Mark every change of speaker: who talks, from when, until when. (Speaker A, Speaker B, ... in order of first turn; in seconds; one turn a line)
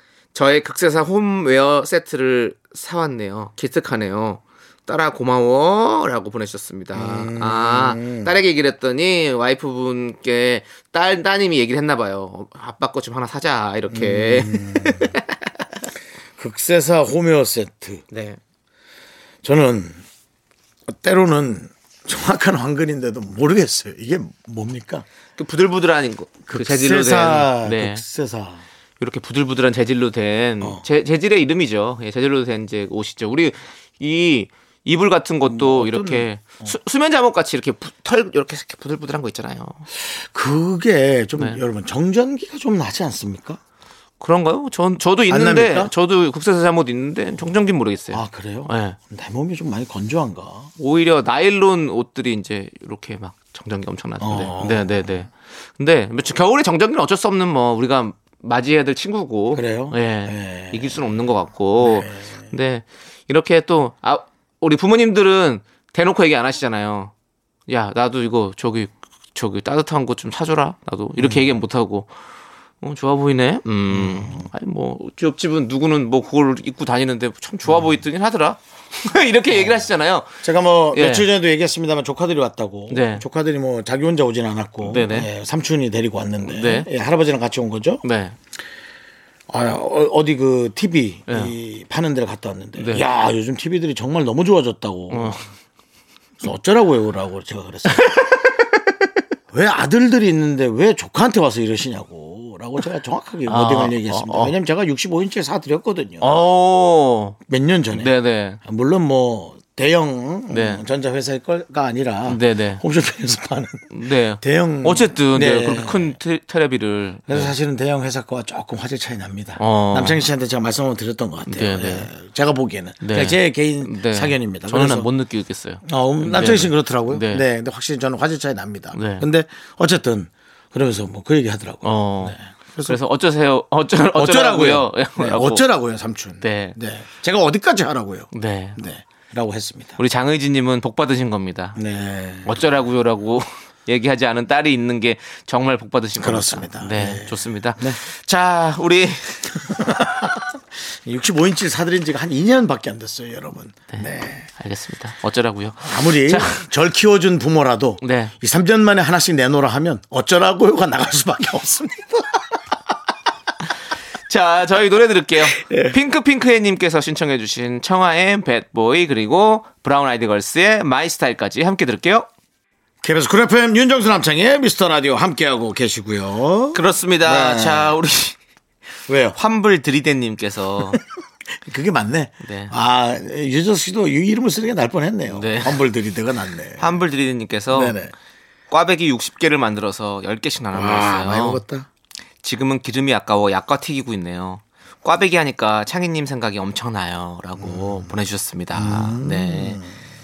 Speaker A: 0.3-15.4
Speaker B: 6.9-8.3
Speaker B: 13.9-15.1
Speaker B: 16.4-18.0
Speaker A: 18.1-18.4
Speaker B: 19.4-20.0
Speaker B: 20.9-25.1
Speaker A: 25.4-28.0
Speaker B: 26.5-28.6
Speaker A: 29.0-39.9
Speaker B: 35.5-36.7
Speaker B: 40.1-43.6
Speaker A: 44.2-49.0
Speaker B: 45.3-45.9
Speaker B: 48.1-50.7
Speaker A: 50.8-67.1
Speaker B: 54.2-55.2
Speaker B: 59.5-61.0
Speaker B: 61.8-62.5
Speaker A: 67.7-72.1
Speaker B: 71.2-71.4
Speaker A: 72.8-80.4
Speaker B: 73.9-74.5
Speaker B: 80.4-88.0
Speaker A: 80.9-81.3
Speaker A: 82.9-83.2
Speaker A: 84.8-85.3
Speaker A: 86.4-86.9
Speaker A: 88.0-88.3
Speaker B: 89.5-95.4
Speaker A: 91.3-91.5
Speaker A: 92.8-93.0
Speaker A: 95.1-95.4
Speaker B: 96.4-98.2
Speaker A: 97.9-98.3
Speaker B: 99.5-106.3
Speaker A: 103.5-104.5
Speaker A: 106.2-107.4
Speaker B: 107.5-108.1
Speaker A: 107.9-108.6
Speaker B: 108.6-116.2
Speaker A: 110.5-110.8
Speaker A: 112.3-112.8
Speaker A: 113.9-117.5
Speaker B: 117.3-125.1
Speaker A: 119.6-120.2
Speaker A: 121.5-122.1
Speaker A: 123.0-127.4
Speaker B: 125.8-133.0
Speaker A: 128.9-129.2
Speaker A: 131.8-135.7
Speaker B: 134.1-140.0
Speaker A: 136.4-136.8
Speaker A: 138.3-138.8
Speaker A: 140.0-141.8
Speaker B: 141.8-142.6
Speaker A: 142.4-150.0
Speaker B: 146.2-148.0
Speaker B: 149.7-154.5
Speaker A: 153.9-156.6
Speaker B: 155.8-162.4
Speaker A: 158.0-158.3
Speaker A: 164.3-172.3
Speaker B: 165.5-166.0
Speaker B: 173.0-177.9
Speaker A: 176.7-178.4
Speaker B: 179.1-179.3
Speaker A: 179.3-181.0
Speaker B: 181.6-187.0
Speaker A: 182.4-182.7
Speaker A: 185.3-185.8
Speaker A: 186.8-187.9
Speaker B: 187.7-188.1
Speaker A: 188.7-191.6
Speaker B: 190.7-191.9
Speaker A: 192.4-199.8
Speaker B: 197.6-198.1
Speaker B: 198.7-199.9